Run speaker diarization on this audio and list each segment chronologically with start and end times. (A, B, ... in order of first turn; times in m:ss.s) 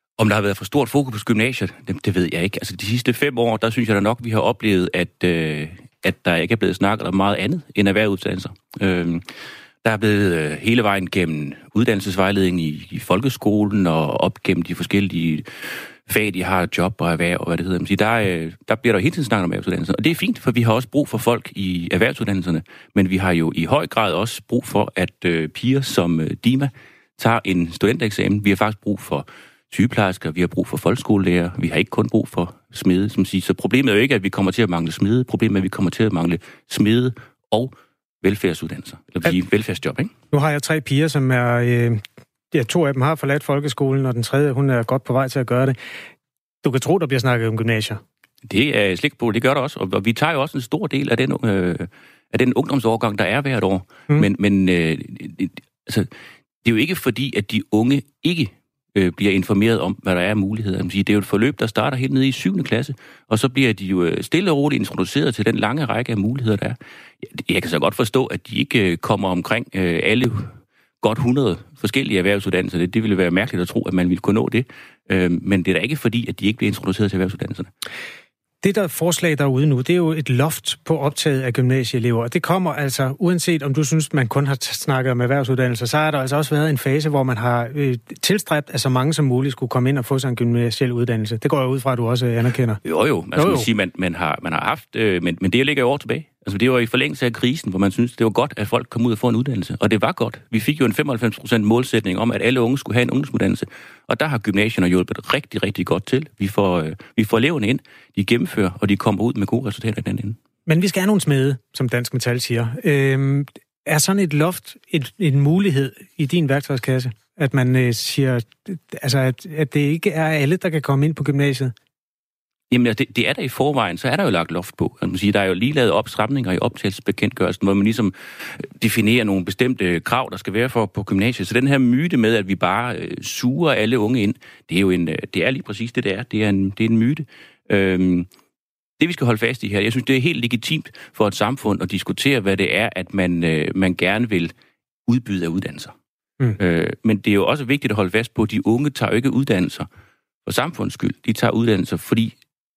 0:00.2-0:09.2 A
0:09.8-0:40.1 A
0:40.3-0:45.8 B
0:46.6-0:48.0 B
0:48.4-0:56.1 A
0:56.6-1:17.7 A
1:18.6-1:32.8 B
1:32.8-1:50.4 A
1:33.3-1:33.7 B
1:50.7-2:01.7 B
2:02.7-2:18.3 A
2:19.0-2:24.5 A
2:25.1-2:25.9 A
2:26.6-2:29.9 A
2:30.4-2:32.3 A